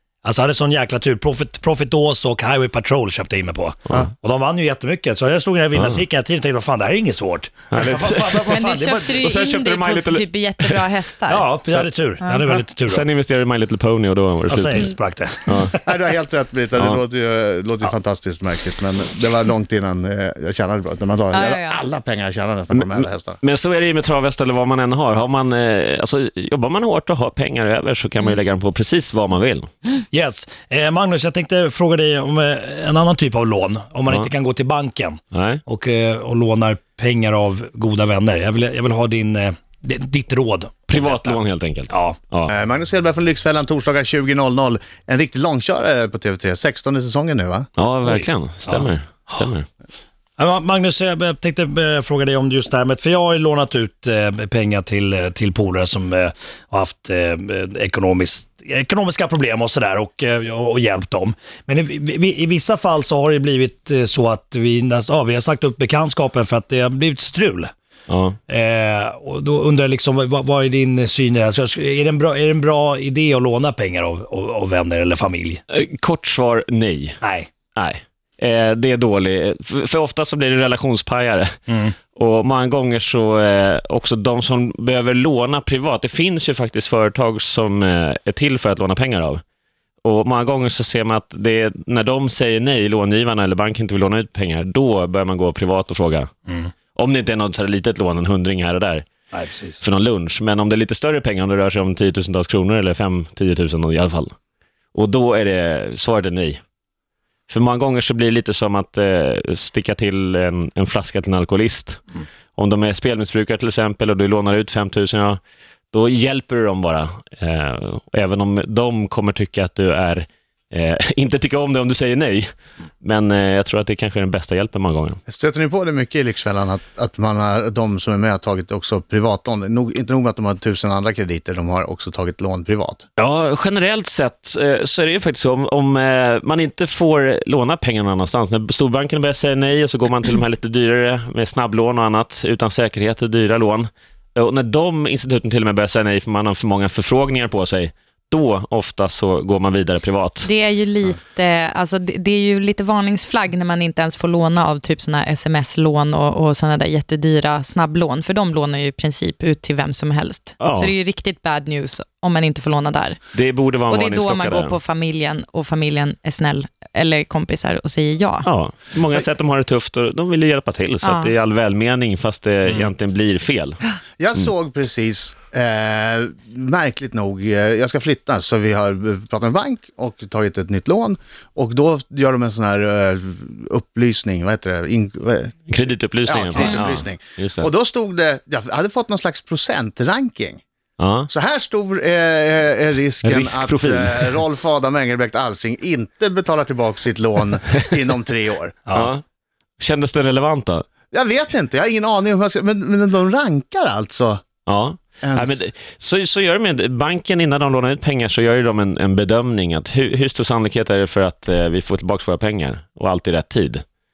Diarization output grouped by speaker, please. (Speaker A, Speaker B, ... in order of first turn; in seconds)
Speaker A: 0.2-9.2, 11.3-13.1, 14.5-15.9, 30.1-42.2, 48.0-49.5, 50.4-67.7, 68.5-75.6, 77.2-77.5, 81.7-82.0, 96.5-96.7, 99.3-99.8
Speaker B: 5.7-6.0, 7.7-10.9, 12.5-15.8, 22.7-29.8, 35.3-35.6, 40.9-42.5, 47.8-49.7, 68.1-68.4, 75.7-77.2, 77.8-81.6, 82.1-89.4, 90.0-96.3, 97.0-99.1, 99.8-104.3, 104.9-106.6, 107.5-115.4, 115.9-125.2, 133.2-150.5, 160.6-160.9, 163.3-164.8, 168.4-173.8, 185.7-187.7, 191.0-191.3, 193.2-194.4, 198.9-199.2, 199.8-200.9, 204.7-213.8
Speaker C: 8.5-11.5, 21.3-21.8, 150.4-163.2, 163.9-168.5, 171.0-171.3, 186.6-186.9
Speaker D: 15.8-23.4, 42.5-47.7, 125.3-133.1, 174.2-185.7, 186.3-190.6, 191.3-198.8, 201.1-204.4, 205.2-205.6